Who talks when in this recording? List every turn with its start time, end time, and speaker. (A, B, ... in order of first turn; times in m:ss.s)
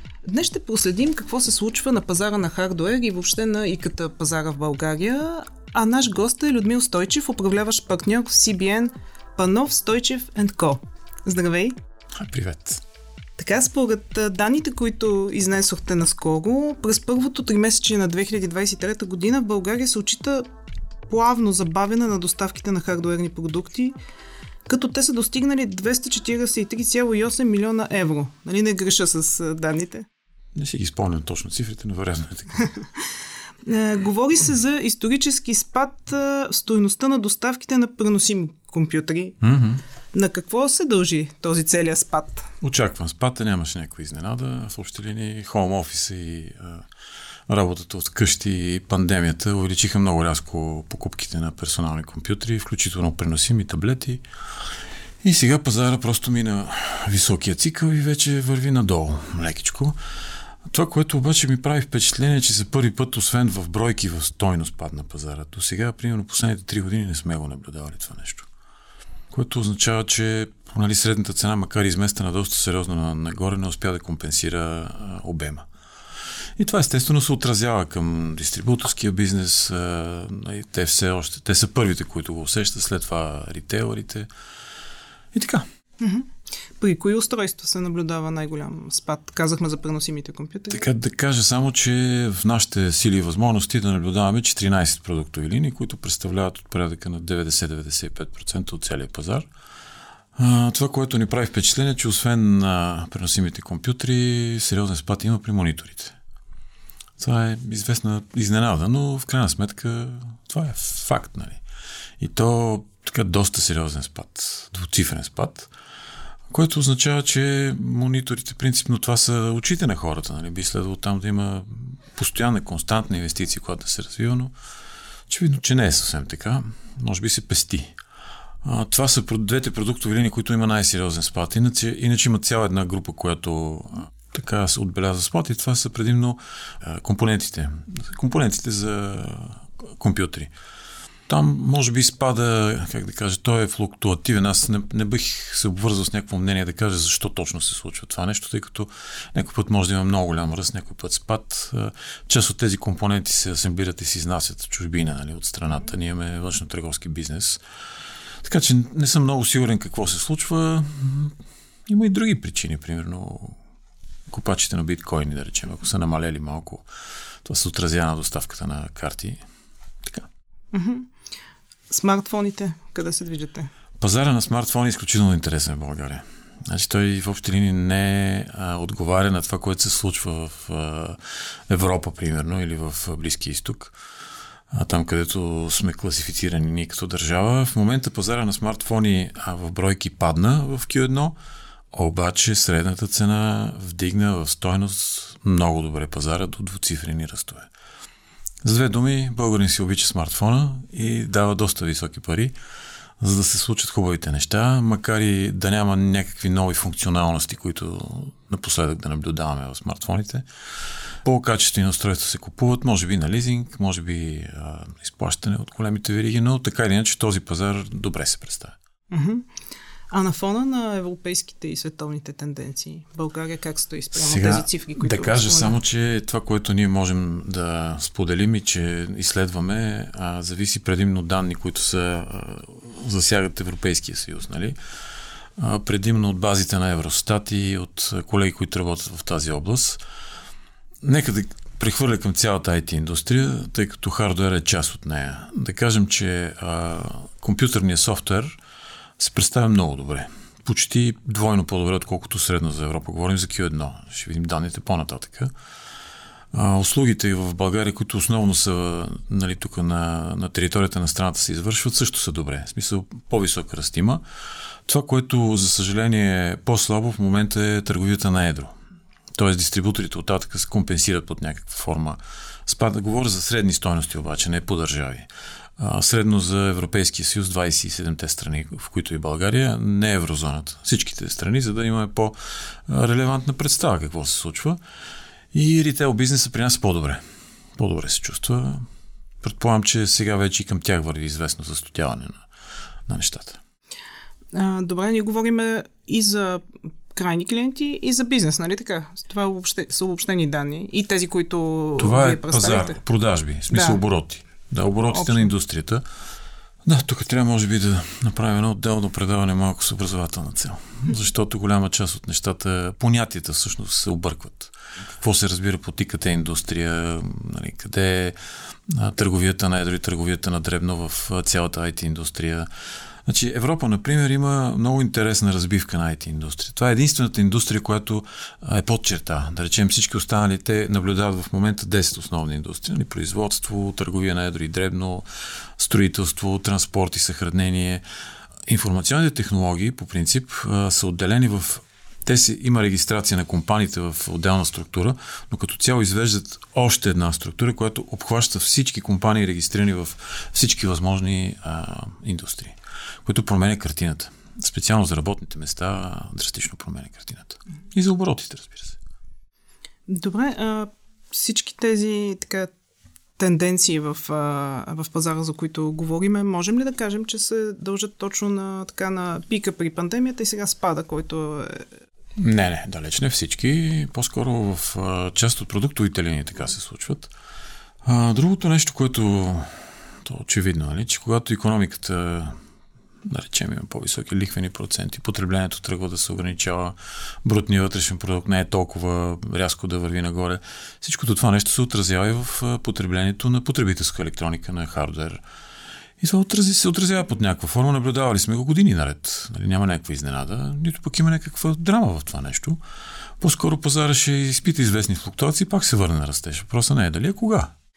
0:00.2-0:11.7 A
0:12.2-0:12.8 B
0:13.4-0:20.4 A
0:21.1-0:23.9 A
0:24.7-0:30.0 A
0:30.5-0:32.7 B
0:33.6-0:39.4 A
0:39.4-0:39.8 B
0:40.1-0:42.5 A
0:42.6-0:46.8 B
0:47.5-0:54.2 B
0:55.2-1:00.0 B
1:00.7-1:08.5 B
1:09.3-1:15.7 B
1:16.6-1:24.3 B
1:25.3-1:25.6 B
1:26.0-1:30.8 A
1:30.7-1:39.5 B
1:40.4-1:46.1 B
1:47.2-1:51.6 B
1:52.2-1:55.7 B
1:56.5-2:04.5 B
2:05.3-2:07.9 B
2:08.6-2:20.5 B
2:21.3-2:37.6 B
2:38.4-2:41.3 B
2:41.9-2:43.6 B
2:44.3-2:46.8 B
2:47.4-2:49.4 B
2:50.7-2:51.1 A
2:51.9-2:53.7 A
2:54.0-3:03.9 B
3:04.7-3:11.4 B
3:11.9-3:17.7 B
3:18.6-3:22.5 B
3:23.2-3:30.4 B
3:31.2-3:38.7 B
3:39.1-3:39.4 A
3:40.1-3:45.8 A
3:44.1-3:54.8 B
3:55.6-4:00.0 B
4:01.0-4:08.6 B
4:09.2-4:15.5 B
4:16.5-4:24.2 B
4:24.8-4:28.7 B
4:29.4-4:44.8 B
4:45.5-4:47.2 B
4:47.8-4:48.8 B
4:49.4-4:52.4 B
4:53.1-4:53.6 B
4:54.5-5:03.0 A
5:02.0-5:06.0 B
5:03.7-5:04.0 A
5:05.1-5:05.5 A
5:06.8-5:22.7 B
5:23.2-5:35.2 B
5:35.8-5:38.0 B
5:38.7-5:59.0 B
6:00.1-6:02.7 A
6:03.4-6:11.8 A
6:12.4-6:17.3 B
6:18.0-6:22.6 B
6:23.2-6:35.4 B
6:36.2-6:42.8 B
6:43.4-6:47.7 B